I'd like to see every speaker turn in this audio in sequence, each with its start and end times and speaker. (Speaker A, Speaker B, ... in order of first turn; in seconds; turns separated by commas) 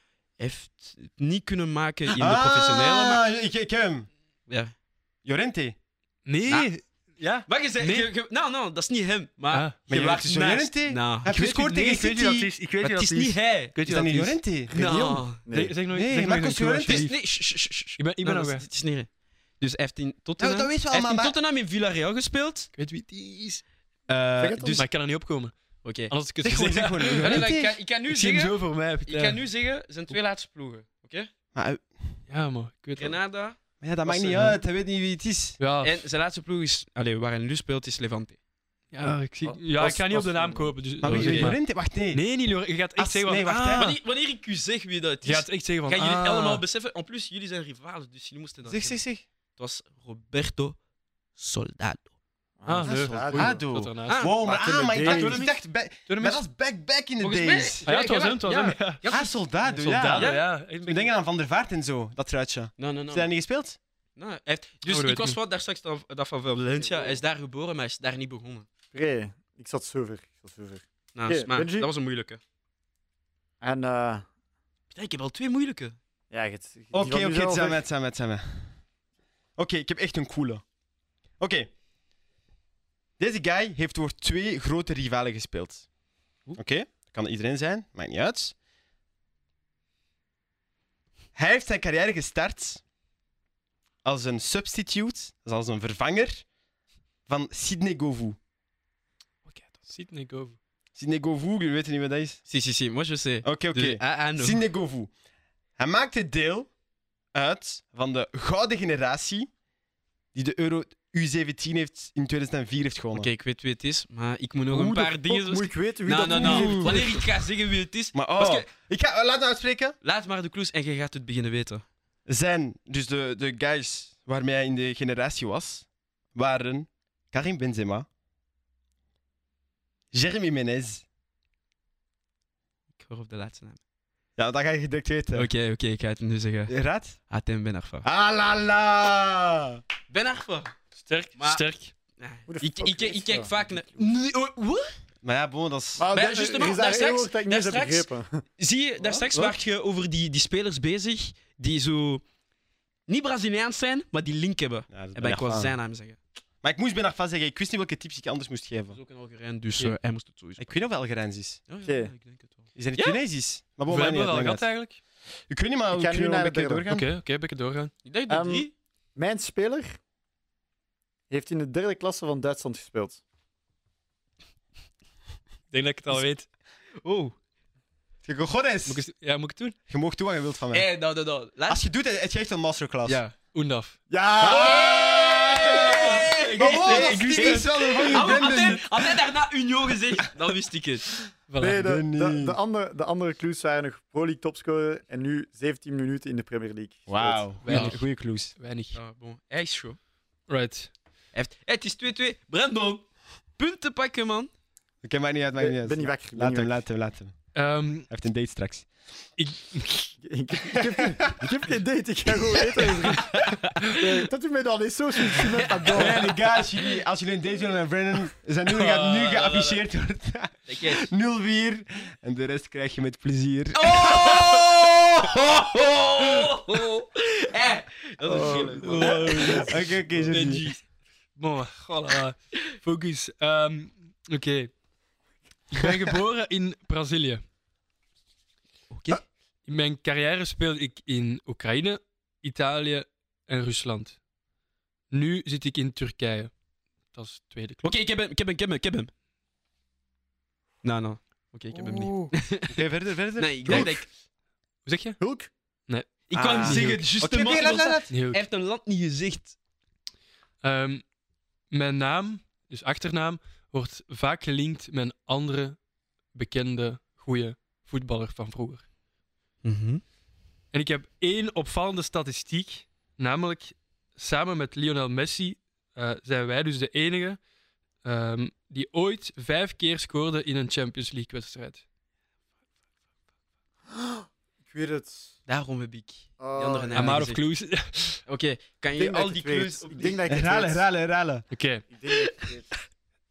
Speaker A: 0.4-3.2, Speaker B: 2.1-4.1, Speaker B: 5.2-5.8, Speaker C: 6.2-8.1, Speaker A: 7.5-11.3, Speaker C: 9.5-9.8, Speaker B: 9.9-12.5, Speaker C: 11.3-14.4, Speaker A: 12.8-13.7, Speaker B: 13.9-14.7, Speaker D: 14.7-15.7, Speaker A: 14.7-15.4, Speaker C: 15.4-17.2, Speaker B: 15.9-17.1, Speaker A: 16.9-22.7, Speaker C: 18.0-18.6, Speaker B: 20.4-21.4, Speaker C: 22.8-23.6, Speaker B: 24.1-24.8, Speaker D: 24.4-24.8, Speaker C: 24.8-27.5, Speaker A: 25.8-26.1, Speaker B: 26.4-27.8, Speaker A: 27.2-31.3, Speaker C: 28.1-29.4, Speaker B: 31.5-32.2, Speaker C: 32.3-33.2, Speaker A: 33.0-34.5, Speaker B: 33.8-35.6, Speaker C: 34.2-34.6, Speaker C: 35.6-36.0, Speaker A: 35.8-38.4, Speaker C: 38.9-43.9, Speaker D: 39.4-40.7, Speaker B: 41.0-42.3, Speaker A: 41.0-41.5, Speaker B: 43.0-44.0, Speaker A: 43.8-49.0, Speaker C: 45.2-46.6, Speaker B: 48.6-49.2, Speaker A: 49.6-50.8, Speaker A: 51.4-52.1, Speaker D: 52.6-53.6, Speaker C: 52.7-54.2, Speaker B: 52.9-57.8, Speaker A: 54.1-54.4, Speaker D: 54.4-55.4, Speaker C: 55.0-55.5, Speaker C: 56.1-56.4, Speaker A: 57.2-59.4, Speaker C: 57.9-59.1, Speaker B: 59.1-63.8, Speaker C: 59.6-61.1, Speaker A: 60.1-60.4, Speaker A: 62.8-63.3, Speaker A: 64.2-68.7, Speaker C: 64.9-65.4, Speaker D: 66.8-67.2, Speaker D: 68.9-71.9, Speaker A: 71.2-72.4, Speaker D: 73.6-74.3, Speaker A: 74.9-76.0, Speaker D: 76.3-77.8, Speaker B: 76.9-78.8, Speaker B: 79.6-80.6, Speaker B: 81.4-81.7, Speaker B: 83.2-85.9, Speaker B: 86.6-88.5, Speaker B: 91.3-92.8, Speaker B: 94.0-96.5, Speaker B: 97.3-98.4, Speaker C: 99.5-100.6, Speaker B: 101.0-102.4, Speaker A: 102.5-104.6, Speaker B: 103.4-105.1, Speaker B: 105.8-106.7, Speaker B: 107.3-109.5, Speaker B: 110.3-113.3, Speaker A: 113.1-118.7, Speaker D: 114.7-117.2, Speaker B: 116.3-117.0, Speaker B: 118.1-120.0, Speaker A: 120.0-121.8, Speaker B: 122.3-128.1, Speaker B: 130.1-131.0, Speaker A: 133.0-133.8, Speaker B: 134.4-135.5, Speaker A: 135.3-136.8, Speaker B: 136.7-137.2, Speaker A: 137.3-138.1, Speaker B: 138.0-139.8, Speaker A: 140.1-140.8, Speaker C: 141.0-141.9, Speaker A: 141.4-141.6, Speaker A: 142.2-144.9, Speaker D: 142.5-143.6, Speaker B: 145.2-146.1, Speaker D: 146.0-148.4, Speaker A: 146.1-152.2, Speaker D: 149.0-149.4, Speaker A: 153.1-156.2, Speaker B: 154.9-155.8, Speaker B: 156.6-159.0, Speaker A: 158.9-160.8, Speaker B: 160.6-161.6, Speaker A: 161.7-163.2, Speaker D: 161.8-162.1, Speaker B: 162.8-164.7, Speaker C: 163.9-165.0, Speaker B: 165.5-167.1, Speaker D: 165.9-166.8, Speaker C: 166.9-167.9, Speaker A: 168.1-168.7, Speaker D: 168.3-170.0, Speaker D: 171.3-173.2, Speaker C: 175.7-176.5, Speaker A: 177.0-177.3, Speaker B: 178.2-179.0, Speaker C: 178.9-179.8, Speaker B: 179.9-180.9, Speaker A: 180.7-181.8, Speaker B: 181.7-183.2, Speaker A: 183.1-183.3, Speaker C: 183.5-184.0, Speaker D: 184.1-186.3, Speaker B: 184.4-189.2, Speaker A: 184.4-191.1, Speaker C: 186.6-188.3, Speaker C: 191.5-191.8, Speaker D: 191.6-197.5, Speaker B: 191.7-192.6, Speaker B: 197.1-198.5, Speaker C: 197.6-199.0, Speaker A: 197.7-197.9, Speaker A: 198.9-200.0, Speaker C: 200.5-200.9, Speaker A: 201.3-204.5, Speaker B: 205.0-207.3, Speaker D: 205.6-206.8, Speaker C: 207.6-208.1, Speaker B: 208.1-208.9, Speaker C: 209.4-210.2, Speaker D: 210.2-216.3, Speaker B: 211.0-211.3, Speaker A: 213.2-213.9, Speaker A: 215.4-216.4, Speaker B: 215.9-226.3, Speaker C: 218.7-219.8, Speaker A: 220.7-221.1, Speaker A: 223.8-229.7, Speaker D: 228.2-230.3, Speaker C: 228.8-229.8, Speaker B: 229.7-230.7, Speaker C: 230.3-230.8, Speaker C: 231.4-234.7, Speaker C: 235.7-237.4, Speaker A: 238.9-239.2, Speaker C: 239.7-244.2, Speaker C: 245.1-246.5, Speaker C: 247.1-247.9, Speaker A: 247.8-249.1, Speaker A: 250.8-254.1, Speaker D: 251.7-252.3, Speaker B: 252.7-254.0, Speaker D: 253.7-253.9, Speaker C: 254.9-255.2, Speaker D: 255.2-255.5, Speaker C: 255.9-257.1, Speaker A: 256.3-259.6, Speaker B: 256.3-258.1, Speaker C: 258.1-258.4, Speaker C: 260.6-261.1, Speaker C: 261.7-265.8, Speaker C: 266.3-268.9, Speaker A: 269.6-270.0, Speaker C: 270.7-277.4, Speaker C: 278.0-281.8, Speaker D: 283.9-285.4, Speaker A: 285.5-287.4, Speaker D: 286.4-287.2, Speaker C: 286.9-288.2, Speaker A: 288.3-290.2, Speaker D: 289.0-290.8, Speaker B: 290.3-291.5, Speaker C: 291.5-291.9, Speaker D: 291.9-292.8, Speaker A: 292.1-292.5